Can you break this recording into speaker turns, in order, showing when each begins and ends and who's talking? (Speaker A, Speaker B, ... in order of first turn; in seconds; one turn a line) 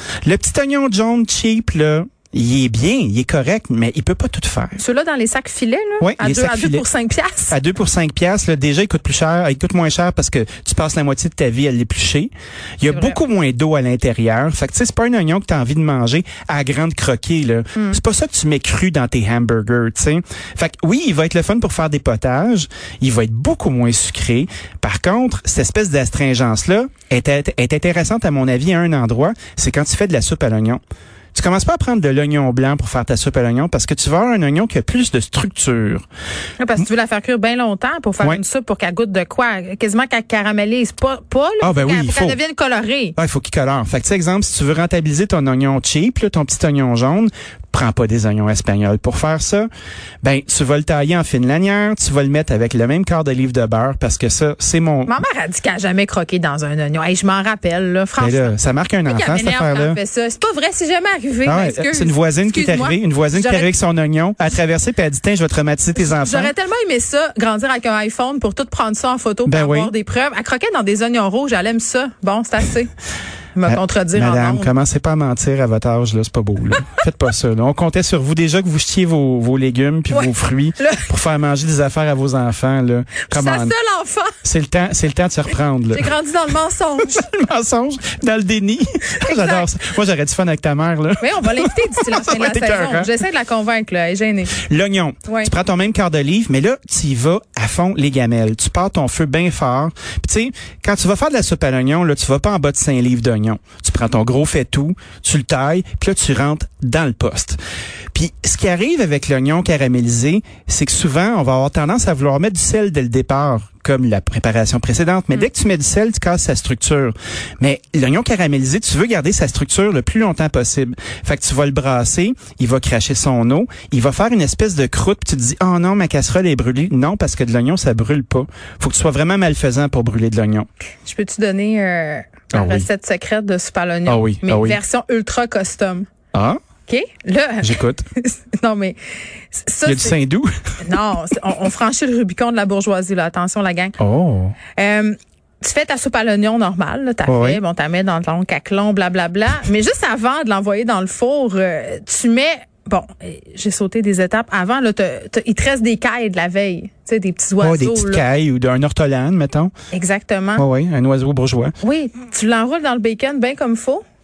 Speaker A: 0.2-4.8
Speaker B: 4.8-7.5
Speaker A: 6.0-6.8
Speaker A: 7.5-30.8
Speaker B: 12.8-13.2
Speaker B: 17.7-18.0
Speaker A: 31.3-36.0
Speaker B: 36.6-43.1
Speaker A: 41.6-42.4
Speaker A: 43.2-49.7
Speaker A: 50.2-55.2
Speaker B: 55.0-58.5
Speaker A: 58.2-60.0
Speaker B: 59.1-63.7
Speaker A: 61.4-66.5
Speaker B: 66.0-72.9
Speaker A: 69.5-69.9
Speaker B: 73.5-74.7
Speaker A: 73.7-83.7
Speaker B: 80.1-81.1
Speaker B: 83.3-84.4
Speaker A: 84.4-86.1
Speaker B: 85.9-87.3
Speaker A: 87.0-93.1
Speaker B: 89.2-89.7
Speaker B: 91.2-94.6
Speaker A: 94.5-107.6
Speaker B: 95.2-95.5
Speaker A: 108.1-130.7
Speaker B: 131.0-136.1
Speaker A: 132.5-132.9
Speaker A: 134.1-134.8
Speaker A: 136.3-136.6
Speaker B: 136.9-139.0
Speaker A: 137.6-138.1
Speaker B: 139.5-140.2
Speaker A: 139.8-140.5
Speaker B: 140.8-143.9
Speaker A: 144.0-144.6
Speaker B: 144.7-158.3
Speaker A: 147.2-147.6
Speaker A: 157.6-159.7
Speaker B: 159.9-160.6
Speaker A: 160.6-161.7
Speaker B: 161.8-164.0